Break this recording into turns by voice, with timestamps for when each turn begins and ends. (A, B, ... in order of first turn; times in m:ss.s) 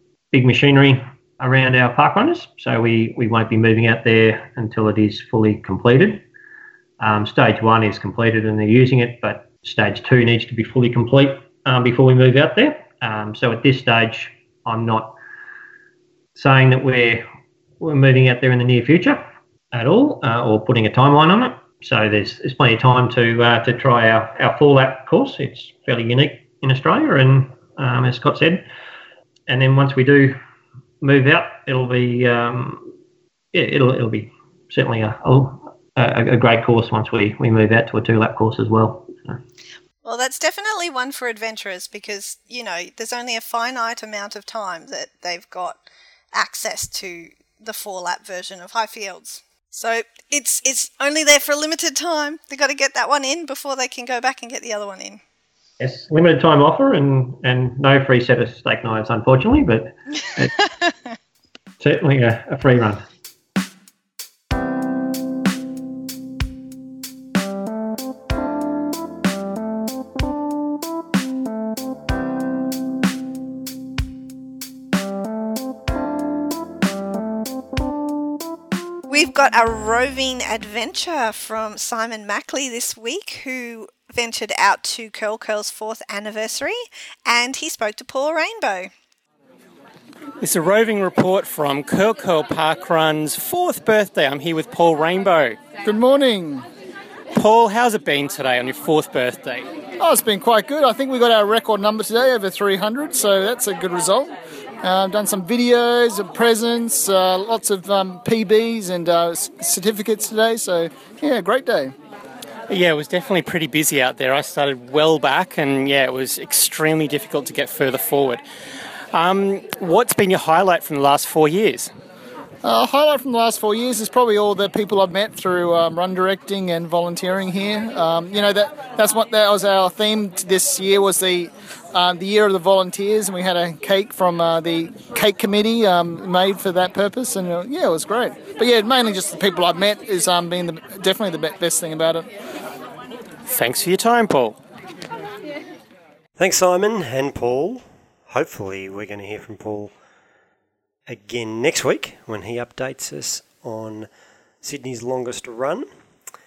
0:00.3-0:06.2 A
0:07.0-0:15.2 A
0:16.4-0:17.3 A
0:17.8-0:28.6 A
0:29.5-0:30.4 A
0:31.0-0:32.9 A
0:33.5-0:39.4 A
0:40.0-0:45.8 B
0:46.3-0:55.2 B
0:55.8-1:00.5 A
1:01.8-1:03.0 A
1:19.1-1:28.9 B
1:30.4-1:35.8 C
1:35.8-1:36.7 D
1:37.3-1:39.7 C
1:40.0-1:51.9 D
1:52.7-1:58.4 C
1:59.1-2:01.9 C
2:02.6-2:22.3 D
2:23.5-2:24.6 C
2:26.4-2:29.9 E
2:31.1-2:34.1 E
2:34.6-2:35.9 E